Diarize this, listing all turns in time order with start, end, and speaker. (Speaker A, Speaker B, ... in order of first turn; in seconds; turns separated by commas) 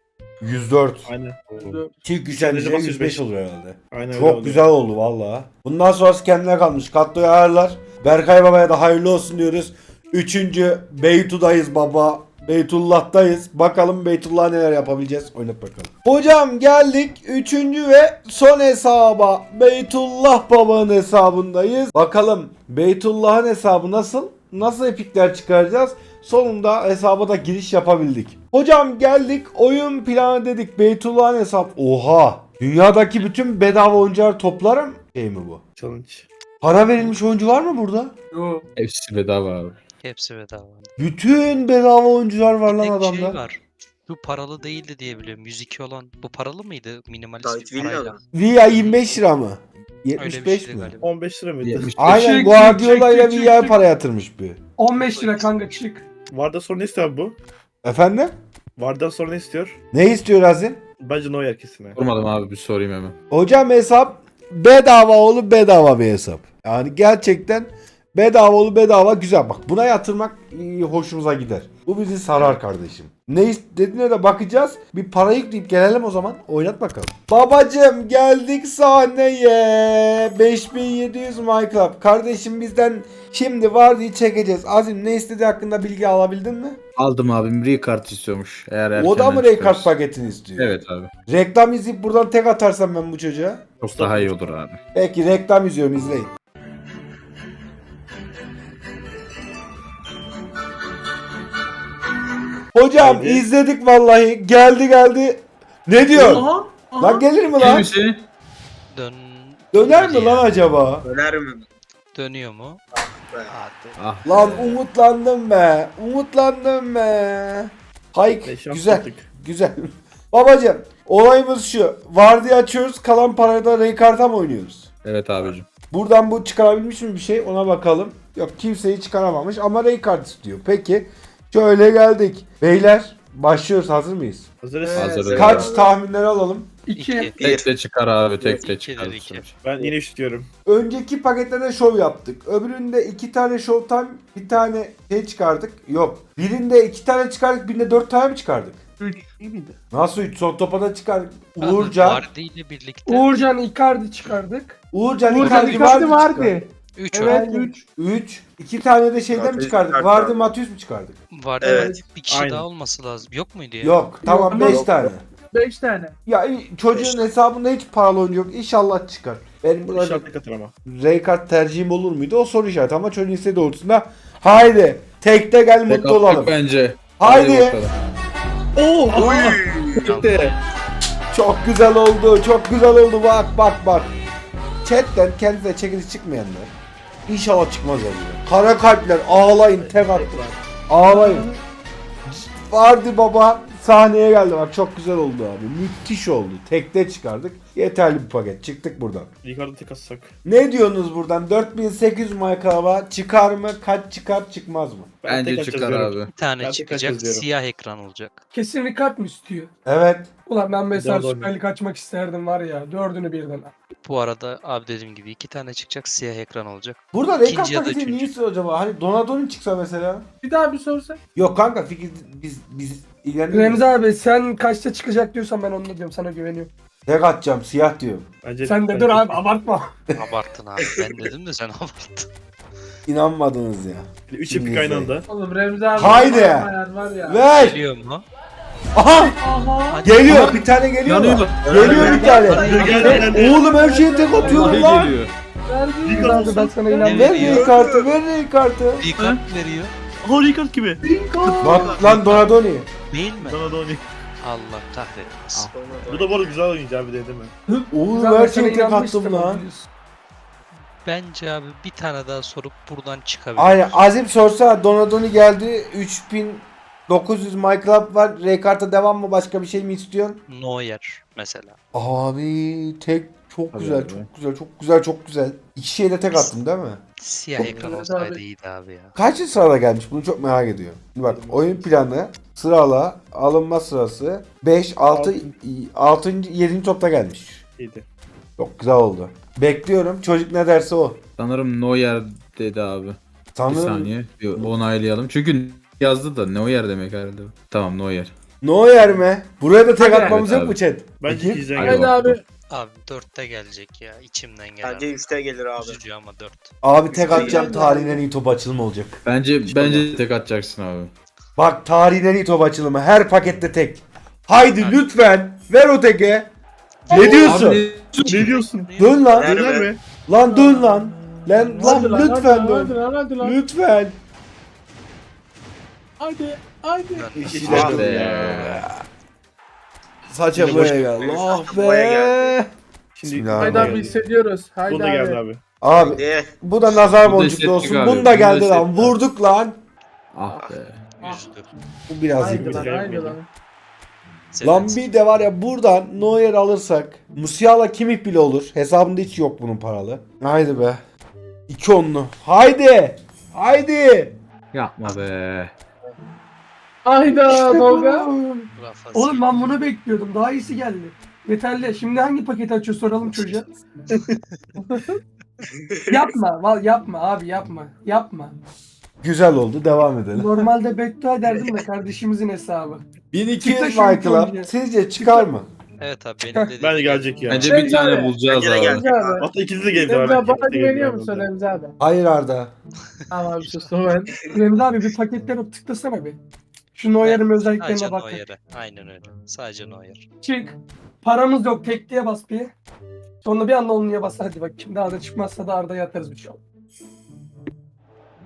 Speaker A: 0.4-1.1, Speaker B: 1.1-1.4, Speaker C: 1.5-1.8, Speaker A: 2.0-35.6, Speaker B: 2.4-3.3, Speaker B: 3.9-4.7, Speaker B: 35.8-36.3, Speaker A: 36.6-38.1, Speaker D: 38.3-38.6, Speaker C: 38.8-39.8, Speaker E: 40.0-40.9, Speaker A: 41.0-43.4, Speaker E: 42.7-49.2, Speaker F: 47.4-48.2, Speaker A: 48.3-51.0, Speaker E: 50.2-51.1, Speaker B: 51.0-52.2, Speaker C: 51.6-52.3, Speaker A: 52.0-54.6, Speaker G: 52.0-53.8, Speaker G: 54.8-56.0, Speaker E: 55.0-55.5, Speaker B: 56.3-57.4, Speaker A: 57.8-58.4, Speaker B: 58.8-59.8, Speaker A: 59.9-60.8, Speaker B: 61.0-62.0, Speaker C: 62.0-63.2, Speaker A: 63.3-86.8, Speaker C: 87.0-89.9, Speaker A: 89.0-90.8, Speaker C: 90.6-91.1, Speaker A: 91.3-93.7, Speaker C: 93.8-94.8, Speaker B: 93.9-94.3, Speaker A: 94.9-96.3, Speaker A: 102.7-107.9, Speaker B: 103.0-103.5, Speaker D: 106.1-107.3, Speaker C: 107.6-108.2, Speaker E: 108.9-110.6, Speaker A: 109.7-111.0, Speaker F: 111.0-111.6, Speaker E: 112.1-112.8, Speaker F: 113.0-113.5, Speaker E: 113.5-114.0, Speaker C: 114.0-114.8, Speaker A: 114.2-124.9, Speaker B: 118.4-119.3, Speaker C: 125.0-125.7, Speaker A: 125.9-134.5, Speaker B: 134.6-135.7, Speaker D: 134.8-135.4, Speaker C: 134.9-135.7, Speaker A: 135.3-136.7, Speaker F: 135.5-135.9, Speaker G: 136.9-137.4, Speaker E: 137.0-137.4, Speaker F: 137.4-137.7, Speaker C: 137.4-139.6, Speaker E: 138.5-139.6, Speaker B: 139.6-140.5, Speaker A: 140.7-148.8, Speaker D: 149.0-149.8, Speaker A: 149.9-152.2, Speaker E: 151.6-153.5, Speaker G: 153.1-154.8, Speaker A: 154.9-156.6, Speaker D: 155.3-157.8, Speaker E: 156.9-157.4, Speaker G: 157.2-157.8, Speaker A: 158.0-161.2, Speaker F: 159.3-160.5, Speaker E: 161.3-164.0, Speaker F: 161.6-162.0, Speaker D: 161.7-162.0, Speaker B: 162.3-162.7, Speaker A: 163.8-165.2, Speaker D: 164.2-166.2, Speaker F: 164.6-165.1, Speaker A: 166.3-170.3, Speaker F: 166.9-167.2, Speaker B: 169.9-170.7, Speaker A: 170.9-176.6, Speaker C: 175.9-177.9, Speaker A: 177.2-177.8, Speaker B: 178.8-179.6, Speaker F: 179.1-180.2, Speaker C: 180.0-180.6, Speaker E: 180.0-180.4, Speaker A: 181.3-184.1, Speaker A: 184.8-186.7, Speaker A: 187.3-191.5, Speaker B: 189.8-190.6, Speaker D: 191.0-191.6, Speaker A: 192.3-199.3, Speaker B: 199.4-200.3, Speaker A: 200.4-205.1, Speaker B: 205.2-207.4, Speaker C: 205.3-206.3, Speaker E: 206.3-208.4, Speaker G: 208.5-209.7, Speaker A: 209.9-210.3, Speaker G: 210.5-213.7, Speaker B: 210.9-211.5, Speaker E: 214.0-218.3, Speaker A: 217.1-220.3, Speaker D: 220.4-221.2, Speaker A: 221.3-223.9, Speaker G: 223.5-226.7, Speaker A: 227.1-228.3, Speaker B: 228.4-229.4, Speaker G: 228.7-229.9, Speaker E: 230.2-232.3, Speaker A: 233.1-235.1, Speaker B: 234.3-235.3, Speaker D: 235.3-237.4, Speaker A: 235.9-236.7, Speaker A: 237.3-237.8, Speaker E: 237.5-238.2, Speaker A: 238.9-239.4, Speaker D: 239.4-240.5, Speaker E: 239.9-240.6, Speaker A: 240.0-245.2, Speaker C: 240.3-243.3, Speaker F: 241.7-243.0, Speaker D: 241.8-245.1, Speaker B: 242.6-243.7, Speaker C: 244.4-245.3, Speaker D: 245.7-247.6, Speaker B: 246.0-246.8, Speaker G: 246.1-247.7, Speaker E: 247.0-247.8, Speaker A: 247.1-249.1, Speaker F: 247.4-248.1, Speaker E: 249.0-249.9, Speaker B: 250.2-251.0, Speaker D: 251.0-252.0, Speaker A: 251.6-252.9, Speaker F: 251.7-252.0, Speaker E: 252.0-252.6, Speaker E: 253.1-253.7, Speaker B: 253.4-254.1, Speaker E: 254.4-255.7, Speaker F: 255.6-256.6, Speaker B: 256.1-257.5, Speaker A: 257.9-259.6, Speaker G: 258.1-259.9, Speaker E: 261.0-264.1, Speaker A: 263.6-270.4, Speaker E: 270.5-271.8, Speaker A: 271.9-277.0, Speaker C: 273.7-274.3, Speaker E: 277.2-279.2, Speaker A: 277.6-277.9, Speaker D: 277.6-278.4, Speaker A: 279.2-287.6, Speaker B: 281.2-281.9, Speaker B: 285.1-285.5, Speaker B: 287.8-288.1, Speaker A: 288.6-291.2, Speaker C: 291.4-298.3, Speaker A: 293.6-294.7, Speaker A: 298.6-301.8, Speaker D: 300.0-300.6, Speaker C: 300.1-300.8, Speaker B: 301.2-302.1, Speaker C: 301.8-302.4, Speaker D: 301.8-302.4, Speaker E: 302.7-306.8, Speaker F: 304.8-306.0, Speaker A: 306.8-310.1, Speaker F: 307.1-307.9, Speaker D: 307.3-308.2, Speaker C: 309.3-311.1, Speaker A: 311.6-316.5, Speaker E: 314.8-315.0, Speaker E: 317.1-317.7, Speaker A: 317.1-317.9, Speaker D: 317.1-317.4, Speaker C: 317.2-318.6, Speaker B: 318.2-318.9, Speaker E: 318.7-319.4, Speaker A: 319.0-319.7, Speaker F: 319.3-319.9, Speaker B: 319.4-320.0, Speaker A: 320.3-324.2, Speaker D: 320.4-323.6, Speaker D: 326.2-327.3, Speaker E: 327.1-328.0, Speaker A: 327.4-329.0, Speaker B: 327.4-328.8, Speaker C: 327.6-328.9, Speaker A: 330.3-332.7, Speaker B: 330.6-331.2, Speaker F: 331.0-332.6, Speaker B: 333.1-334.1, Speaker A: 333.3-334.0, Speaker D: 333.6-335.4, Speaker B: 334.9-335.6, Speaker A: 335.8-339.8, Speaker F: 335.9-336.5, Speaker C: 337.1-339.2, Speaker C: 340.3-341.0, Speaker F: 340.5-340.8, Speaker E: 341.2-341.7, Speaker A: 342.1-342.9, Speaker D: 342.4-343.5, Speaker B: 342.4-343.4, Speaker E: 344.5-345.1, Speaker A: 344.6-351.0, Speaker A: 351.7-354.4, Speaker C: 354.7-355.7, Speaker D: 357.1-358.3, Speaker G: 357.3-363.7, Speaker E: 358.8-359.9, Speaker D: 364.8-365.2, Speaker F: 365.9-366.2, Speaker G: 366.1-368.6, Speaker A: 369.2-370.7, Speaker G: 370.3-373.0, Speaker A: 373.3-375.7, Speaker G: 373.6-375.5, Speaker E: 376.0-377.6, Speaker B: 376.8-377.9, Speaker C: 377.5-379.0, Speaker D: 377.6-381.9, Speaker F: 378.4-379.5, Speaker B: 379.4-381.5, Speaker A: 382.0-382.7, Speaker D: 383.3-384.4, Speaker G: 384.5-386.4, Speaker G: 387.0-388.4, Speaker E: 387.2-390.3, Speaker G: 390.4-392.7, Speaker G: 393.4-396.6